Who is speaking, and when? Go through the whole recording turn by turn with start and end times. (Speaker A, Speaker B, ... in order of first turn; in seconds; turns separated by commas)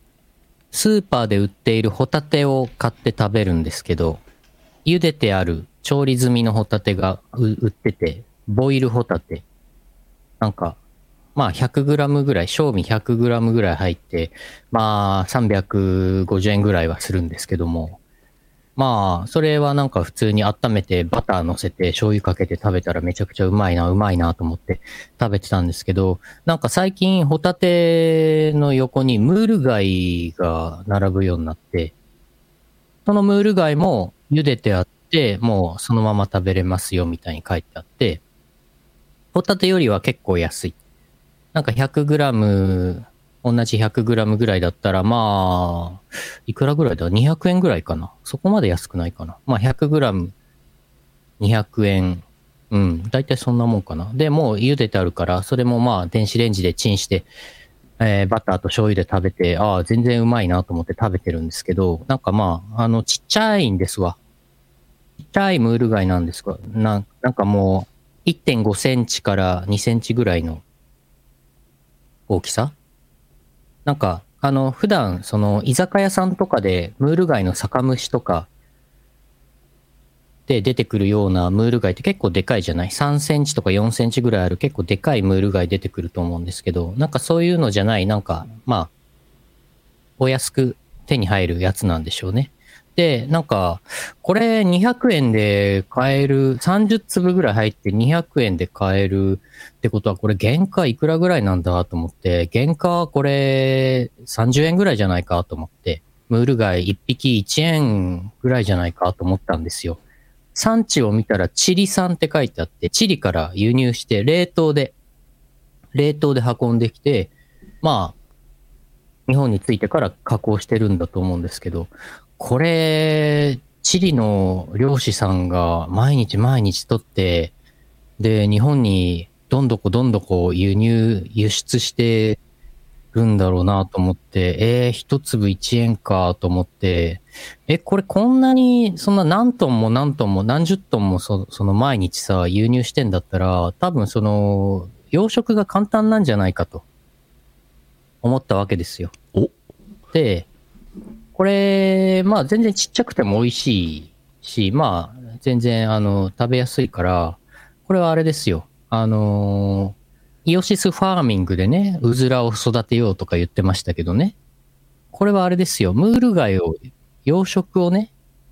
Speaker A: 0.7-4.2, Speaker A: 4.8-9.4, Speaker A: 10.4-10.8, Speaker A: 11.3-18.0, Speaker A: 18.8-31.9, Speaker A: 33.0-38.2, Speaker A: 39.3-40.7, Speaker A: 41.5-50.3, Speaker A: 51.4-57.3, Speaker A: 58.0-64.2, Speaker A: 65.2-70.6, Speaker A: 72.3-72.7, Speaker A: 73.8-78.5, Speaker A: 80.5-88.9, Speaker A: 90.2-110.0, Speaker A: 110.5-114.9, Speaker A: 115.9-118.1, Speaker A: 119.3-127.5, Speaker A: 128.2-132.4, Speaker A: 133.1-146.8, Speaker A: 148.2-149.1, Speaker A: 150.1-150.5, Speaker A: 151.3-164.3, Speaker A: 165.1-168.1